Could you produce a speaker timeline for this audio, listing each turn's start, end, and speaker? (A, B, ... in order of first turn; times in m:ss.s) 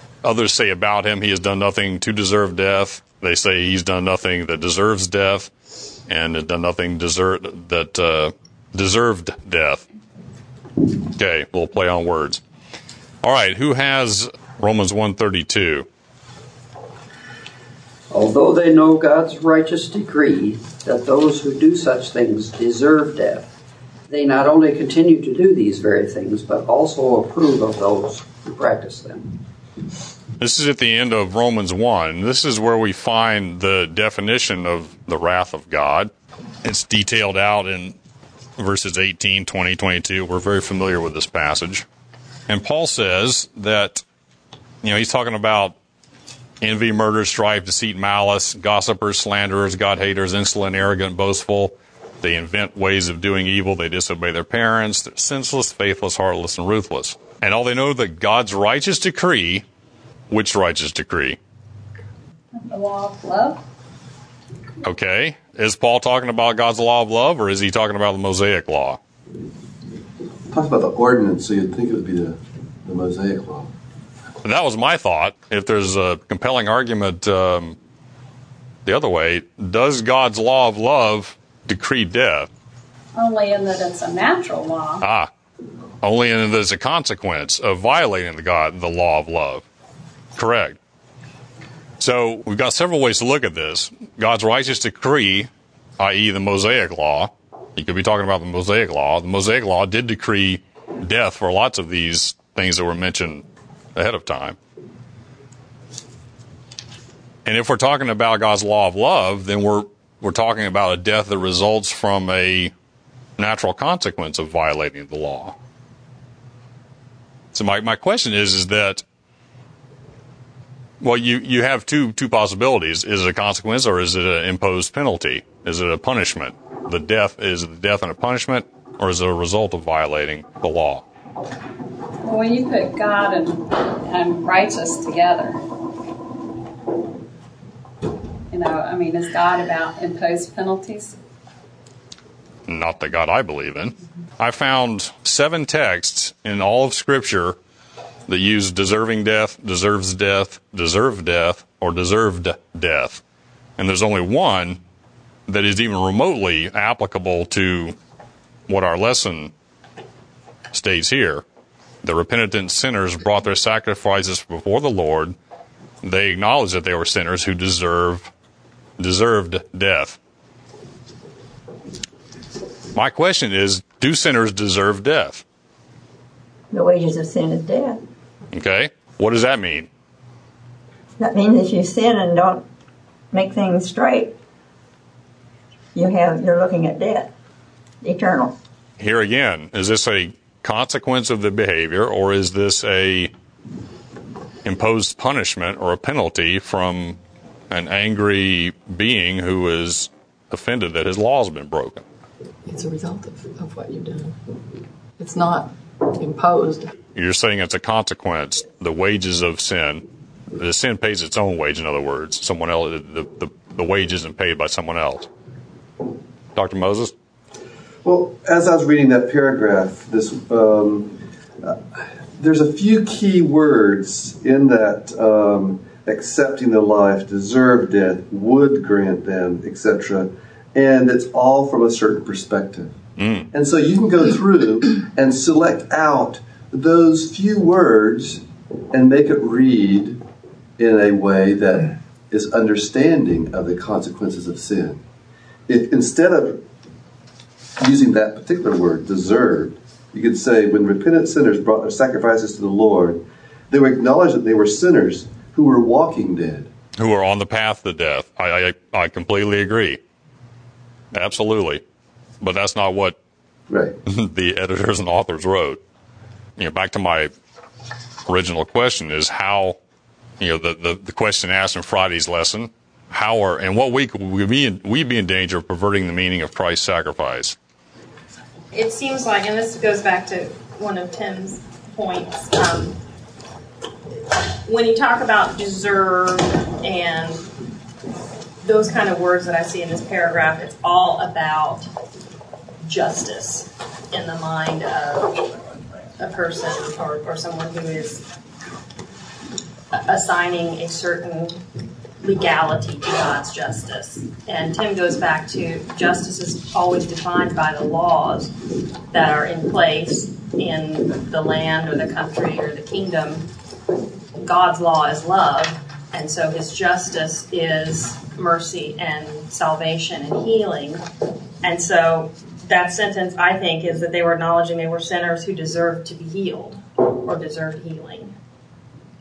0:00.2-0:05.5 A
0:06.1-0:09.8 A
0:11.2-0:12.4 A
0:13.2-0:15.9 A
0:18.1-0:23.5 B
0:24.1-0:29.4 B
0:30.4-0:36.1 A
0:36.6-0:38.0 A
0:38.6-0:41.8 A
0:42.5-0:44.0 A
0:44.8-0:45.8 A
0:46.6-0:59.6 A
1:00.3-1:01.4 A
1:02.6-1:03.6 C
1:04.8-1:09.0 A
1:10.5-1:13.7 D
1:14.4-1:17.8 A
1:18.8-1:22.5 A
1:23.1-1:25.0 C
1:25.0-1:25.3 A
1:26.0-1:29.6 A
1:30.4-1:30.8 A
1:32.0-1:44.6 A
1:47.4-1:52.7 A
1:53.4-1:55.5 A
1:57.5-1:59.0 A
2:01.0-2:11.0 A
2:12.2-2:15.6 C
2:18.5-2:21.2 C
2:22.7-2:27.6 A
2:28.3-2:33.2 A
2:33.8-2:34.8 A
2:35.5-2:37.9 A
2:38.7-2:39.5 A
2:40.7-2:41.4 A
2:42.0-2:45.3 A
2:46.0-2:48.3 A
2:49.0-2:50.2 A
2:52.9-2:55.4 A
2:56.7-2:58.0 E
2:58.5-2:59.9 A
3:01.2-3:02.6 E
3:03.3-3:04.4 E
3:05.9-3:07.3 E
3:08.0-3:08.5 E
3:09.0-3:13.3 A
3:14.6-3:17.2 A
3:17.7-3:22.0 A
3:22.6-3:24.4 F
3:25.2-3:26.9 F
3:27.1-3:35.3 A
3:36.5-3:37.1 A
3:38.0-3:53.0 D
3:53.2-3:53.5 A
3:53.5-4:00.2 D
4:00.8-4:05.0 D
4:05.7-4:06.6 D
4:07.8-4:16.7 D
4:17.0-4:20.0 A
4:21.1-4:21.8 A
4:22.4-4:23.2 A
4:23.7-4:24.0 D
4:24.0-4:25.8 A
4:26.6-4:27.3 A
4:28.3-4:29.8 A
4:30.4-4:37.6 A
4:38.7-4:43.0 G
4:44.6-4:47.5 G
4:48.6-4:51.9 G
4:52.8-4:55.5 G
4:56.2-4:58.2 G
4:59.9-5:01.6 G
5:02.2-5:08.5 G
5:09.1-5:13.5 G
5:14.4-5:21.0 G
5:21.6-5:28.3 G